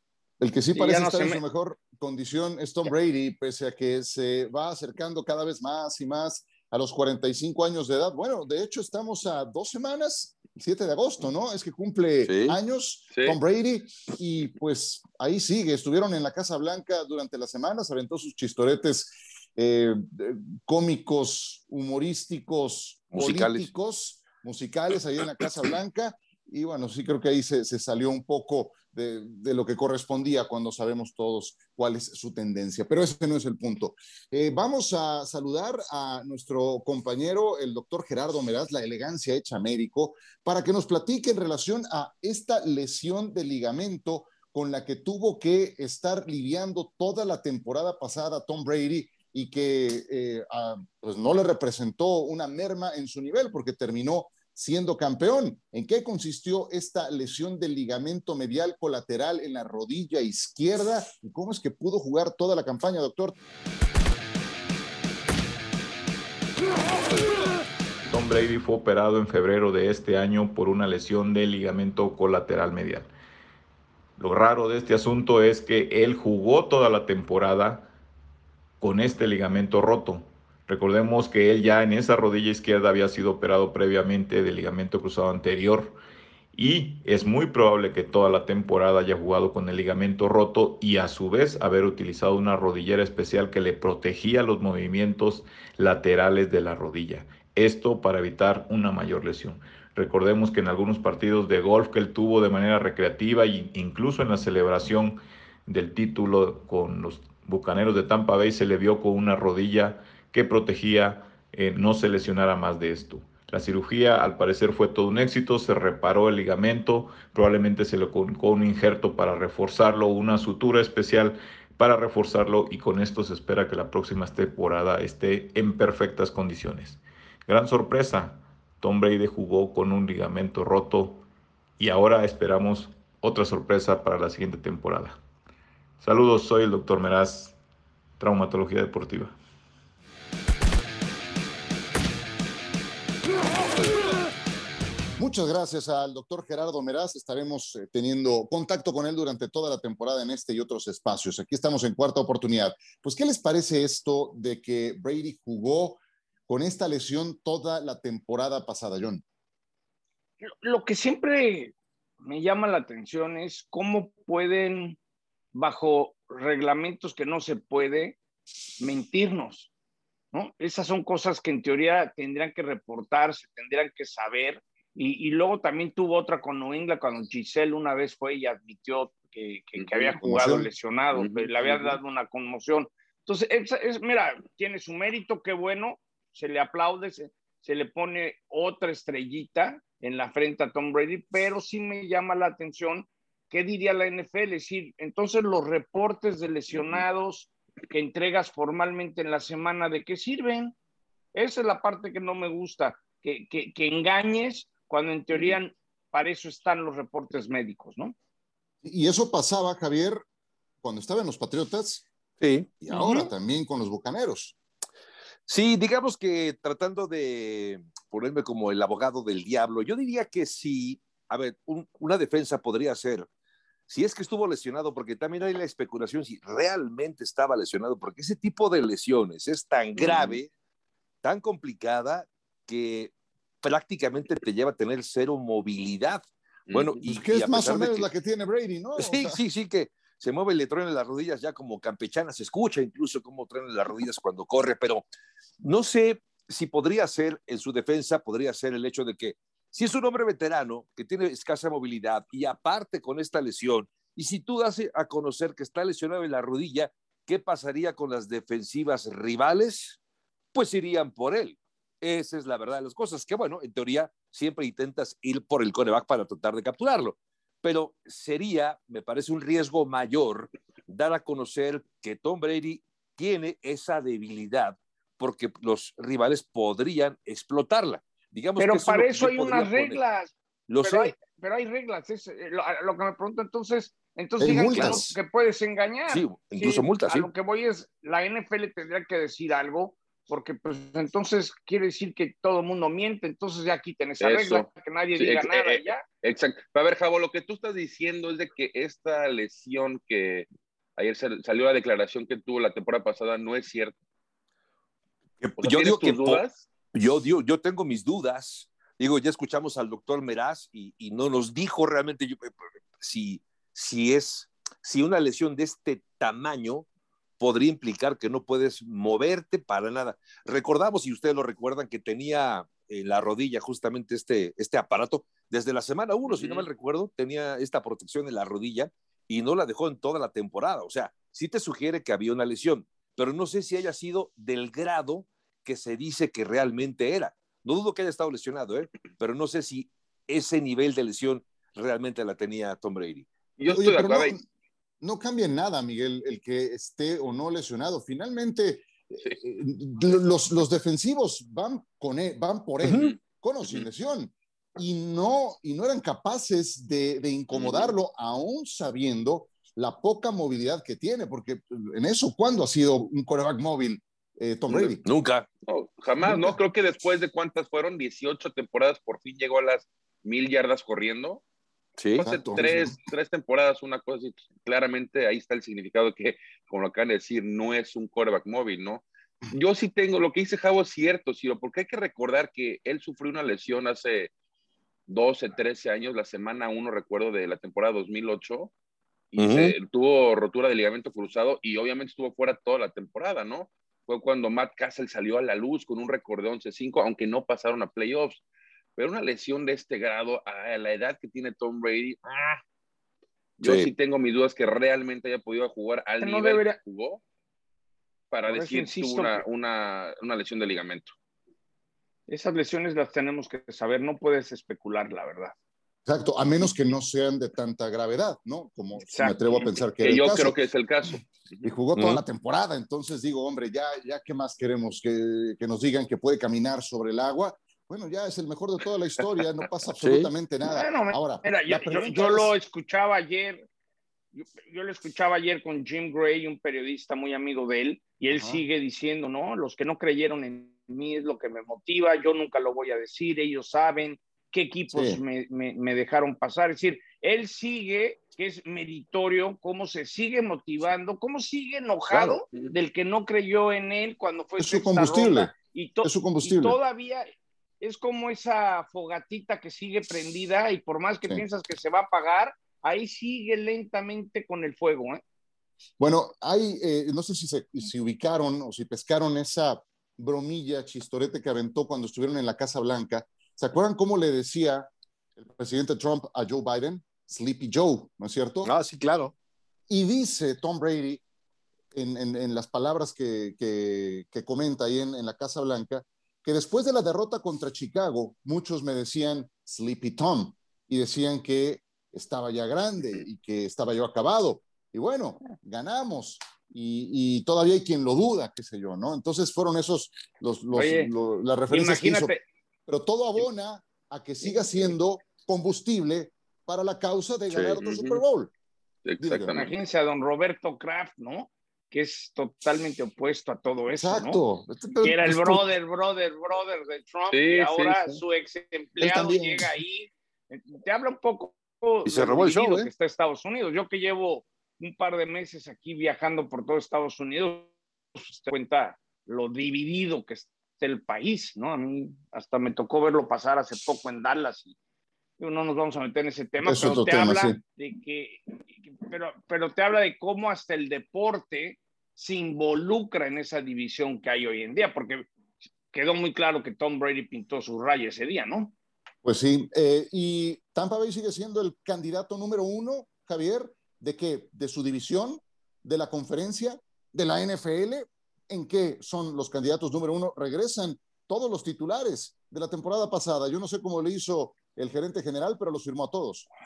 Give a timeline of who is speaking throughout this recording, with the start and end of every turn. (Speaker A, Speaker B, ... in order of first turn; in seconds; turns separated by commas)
Speaker A: 0.4-63.4, Speaker B: 0.8-1.4, Speaker C: 12.2-12.6, Speaker D: 13.1-13.4, Speaker C: 23.1-23.7, Speaker E: 68.1-73.1, Speaker E: 74.2-77.9, Speaker E: 78.8-86.0, Speaker E: 86.5-131.2, Speaker E: 131.8-135.2, Speaker E: 136.0-137.6, Speaker E: 138.2-139.3, Speaker A: 145.2-159.2, Speaker B: 160.4-165.0, Speaker B: 165.5-168.2, Speaker B: 168.8-169.7, Speaker B: 170.3-200.8, Speaker D: 179.8-180.1, Speaker A: 180.2-180.7, Speaker D: 181.2-182.0, Speaker B: 201.3-208.2, Speaker A: 208.8-210.2, Speaker A: 210.8-212.1, Speaker C: 212.4-212.7, Speaker A: 212.8-214.6, Speaker B: 212.9-213.3, Speaker C: 215.5-223.3, Speaker C: 223.9-230.5, Speaker D: 230.0-230.4, Speaker C: 231.2-238.1, Speaker D: 236.7-237.0, Speaker A: 237.1-239.4, Speaker C: 239.0-245.1, Speaker C: 245.6-260.0, Speaker C: 260.5-280.0, Speaker B: 278.6-296.0, Speaker C: 280.7-281.1, Speaker A: 284.4-285.2, Speaker C: 286.1-287.3, Speaker D: 294.2-294.7, Speaker D: 295.2-300.5, Speaker D: 301.0-303.9, Speaker C: 305.4-306.4, Speaker D: 305.6-306.6, Speaker C: 306.9-316.9, Speaker C: 317.4-343.3, Speaker D: 326.3-326.7, Speaker D: 343.6-344.4, Speaker A: 343.7-344.4, Speaker A: 345.0-365.0, Speaker C: 352.8-353.1, Speaker D: 357.5-357.9, Speaker D: 364.7-364.9, Speaker C: 365.0-365.5, Speaker D: 365.7-371.4, Speaker A: 366.2-366.6, Speaker C: 372.0-372.2, Speaker D: 372.2-384.3, Speaker A: 372.2-373.0, Speaker D: 385.1-388.7, Speaker D: 389.3-398.4, Speaker C: 389.4-389.7, Speaker D: 399.0-402.6, Speaker D: 403.6-407.2, Speaker C: 403.6-403.9, Speaker B: 406.2-406.8, Speaker D: 408.3-411.1, Speaker B: 408.5-409.4, Speaker B: 412.3-415.5, Speaker A: 416.1-420.6, Speaker B: 419.0-419.7, Speaker D: 420.0-421.7, Speaker A: 421.6-432.5, Speaker C: 422.0-422.2, Speaker C: 430.0-430.3, Speaker B: 430.6-433.7, Speaker B: 434.4-457.3, Speaker A: 438.3-438.6, Speaker A: 444.9-445.2, Speaker A: 452.1-452.4, Speaker A: 454.6-456.8, Speaker B: 457.8-465.2, Speaker A: 466.0-478.7, Speaker C: 478.6-479.3, Speaker A: 479.9-481.2, Speaker A: 481.9-502.3, Speaker B: 500.7-501.1, Speaker B: 501.7-502.4, Speaker A: 502.9-508.5, Speaker C: 507.5-507.8, Speaker D: 507.8-508.2, Speaker D: 509.1-509.7, Speaker A: 509.2-509.5, Speaker B: 509.5-514.4, Speaker A: 514.0-515.7, Speaker B: 515.0-534.8, Speaker D: 517.3-518.2, Speaker A: 519.0-519.7, Speaker C: 522.1-522.9, Speaker B: 535.4-545.2, Speaker A: 536.6-537.6, Speaker B: 545.9-548.7, Speaker A: 549.2-566.5